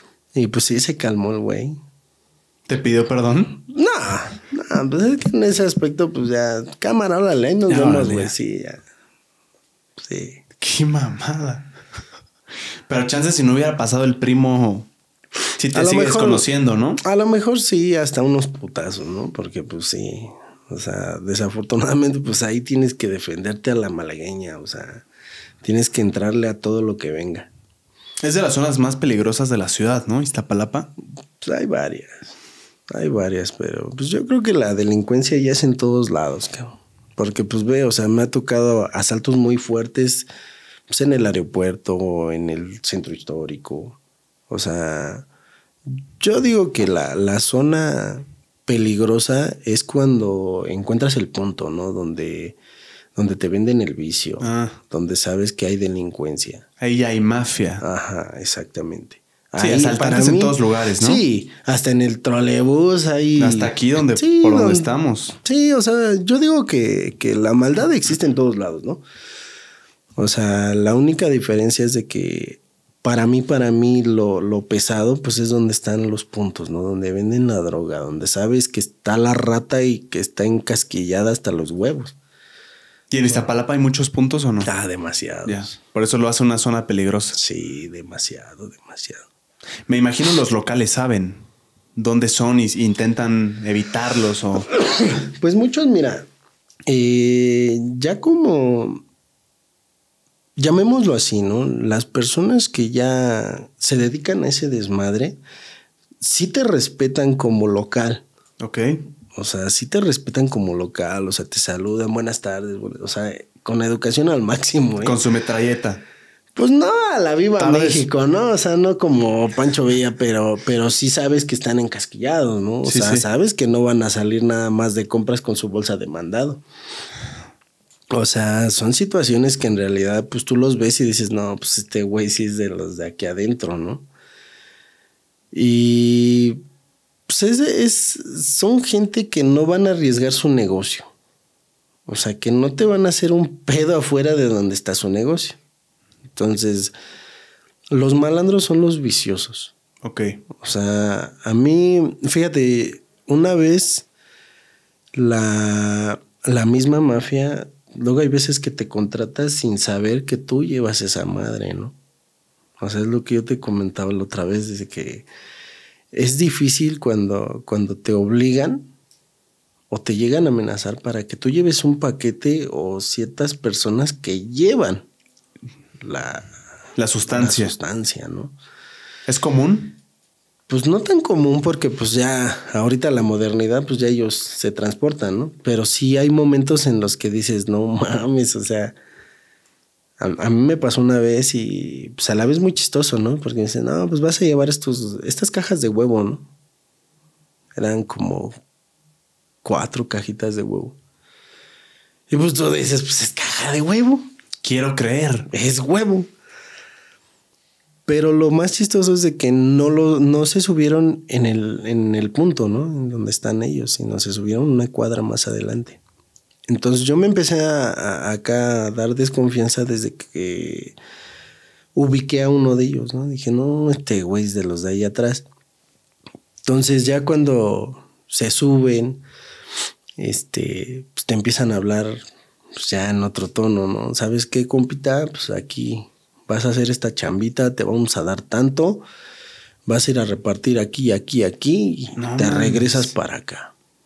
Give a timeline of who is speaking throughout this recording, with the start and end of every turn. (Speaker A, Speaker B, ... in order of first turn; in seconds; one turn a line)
Speaker A: 0.3-1.8
Speaker B: 2.7-3.6
Speaker A: 3.7-8.8
Speaker B: 7.7-8.3
Speaker A: 10.0-10.4
Speaker B: 10.6-11.7
Speaker B: 12.9-14.9
Speaker B: 15.6-17.0
Speaker A: 15.7-16.5
Speaker A: 17.0-25.1
Speaker A: 25.6-27.5
Speaker B: 28.2-30.9
Speaker A: 31.4-32.3
Speaker A: 32.9-40.3
Speaker A: 40.9-44.0
Speaker A: 44.5-45.3
Speaker A: 45.9-52.6
Speaker A: 53.1-56.6
Speaker B: 54.4-54.8
Speaker B: 56.8-57.8
Speaker A: 57.8-69.0
Speaker B: 59.6-61.2
Speaker B: 63.4-65.4
Speaker A: 70.2-82.2
Speaker B: 83.1-84.7
Speaker A: 84.7-85.7
Speaker B: 85.5-87.4
Speaker A: 87.3-89.3
Speaker B: 89.9-91.4
Speaker B: 92.0-94.7
Speaker A: 94.8-96.3
Speaker A: 96.9-99.0
Speaker A: 100.6-105.4
Speaker A: 106.2-108.2
Speaker B: 108.6-109.0
Speaker A: 109.3-115.2
Speaker B: 115.0-116.0
Speaker A: 116.5-126.6
Speaker B: 117.6-118.0
Speaker B: 122.8-123.3
Speaker A: 128.1-134.1
Speaker A: 135.5-136.6
Speaker A: 137.3-141.1
Speaker A: 142.1-145.6
Speaker A: 146.3-146.9
Speaker A: 147.9-149.7
Speaker B: 150.0-150.4
Speaker A: 150.6-154.1
Speaker A: 155.2-162.0
Speaker A: 162.8-165.3
Speaker A: 166.1-168.9
Speaker A: 169.9-175.1
Speaker A: 176.0-176.5
Speaker B: 177.0-177.7
Speaker A: 177.3-178.6
Speaker B: 179.3-180.0
Speaker A: 180.7-189.0
Speaker A: 190.2-196.5
Speaker A: 197.8-198.6
Speaker A: 199.6-201.0
Speaker A: 202.3-204.3
Speaker B: 204.6-205.5
Speaker A: 205.5-206.3
Speaker A: 208.1-216.0
Speaker A: 216.7-221.0
Speaker A: 221.9-225.5
Speaker A: 226.7-229.2
Speaker A: 230.2-239.1
Speaker A: 239.9-243.7
Speaker B: 242.2-243.1